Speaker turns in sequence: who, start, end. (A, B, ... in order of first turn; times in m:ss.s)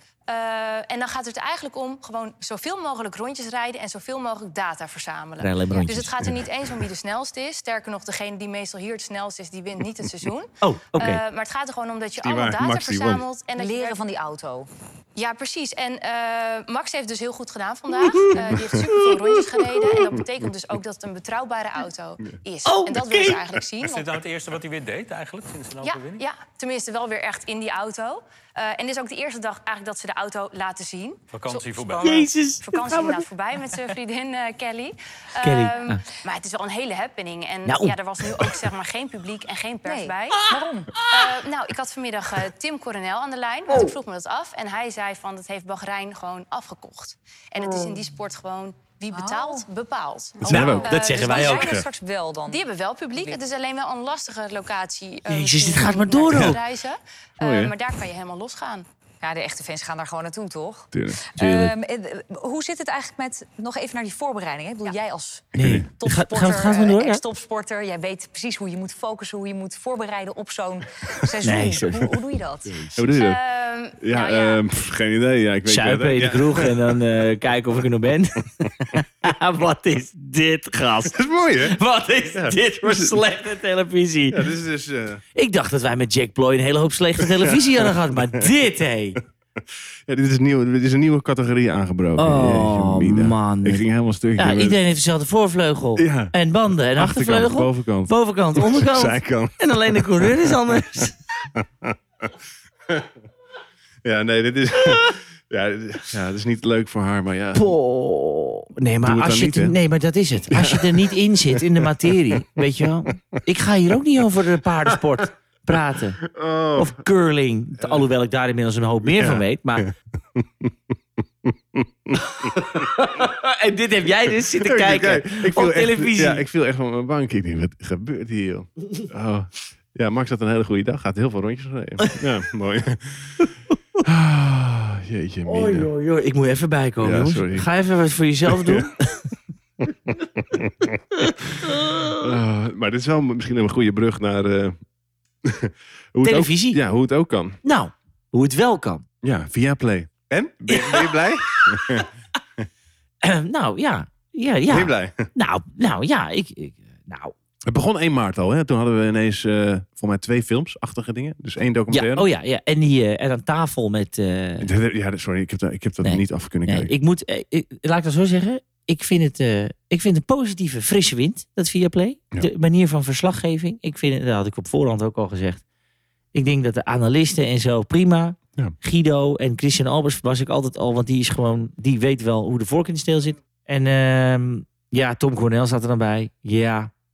0:00.3-0:14.0 A
0:05.4-0:06.2 B
0:06.2-0:06.8 C
0:10.6-0:11.2 B
0:12.2-0:13.2 C
0:13.6-0:14.7 D
0:15.2-0:24.1 A
0:18.0-0:20.0 B
0:22.6-0:23.4 B
0:23.8-0:26.2 E
0:25.8-0:51.8 A
0:31.3-0:32.3 E
0:32.0-0:33.3 B
0:35.4-0:36.0 B
0:37.6-0:38.5 B
0:39.8-0:41.0 D
0:40.4-0:41.4 B
0:47.6-0:48.0 D
0:49.1-0:49.6 D
0:50.4-0:52.6 D
0:50.4-0:51.8 B
0:50.5-0:50.9 C
0:52.4-0:58.8 A
0:55.3-0:56.6 B
0:56.3-0:56.6 C
0:57.4-0:57.7 C
0:59.2-1:12.8 D
1:00.9-1:01.2 C
1:01.4-1:01.7 B
1:05.5-1:05.9 C
1:05.6-1:07.2 B
1:11.4-1:12.0 B
1:12.6-1:13.0 B
1:13.0-1:13.4 C
1:13.1-1:14.6 A
1:14.0-1:17.0 C
1:15.6-1:24.5 B
1:21.0-1:21.8 C
1:22.3-1:23.2 C
1:24.3-1:25.2 C
1:25.3-1:29.2 B
1:27.2-1:28.5 C
1:29.6-1:34.8 C
1:32.2-1:33.8 B
1:34.4-1:41.1 B
1:36.0-1:42.3 C
1:44.0-1:47.7 C
1:47.5-1:56.2 B
1:49.0-1:49.8 C
1:50.5-1:53.1 C
1:56.2-1:57.0 C
1:56.8-1:59.9 B
1:59.0-2:02.9 C
2:02.3-2:06.4 B
2:04.5-2:13.5 C
2:12.0-2:12.3 B
2:13.4-2:13.7 B
2:14.0-2:15.9 C
2:15.4-2:19.3 B
2:17.0-2:17.7 C
2:18.5-2:18.9 C
2:20.4-2:24.8 C
2:21.2-2:22.3 B
2:25.4-2:27.6 C
2:26.2-2:26.8 B
2:27.6-2:29.0 B
2:29.2-2:32.1 C
2:30.7-2:32.1 B
2:33.2-2:37.3 B
2:34.7-2:35.3 C
2:37.6-2:42.3 C
2:41.9-2:44.7 B
2:44.6-2:46.9 C
2:46.0-2:55.6 B
2:56.3-3:06.9 B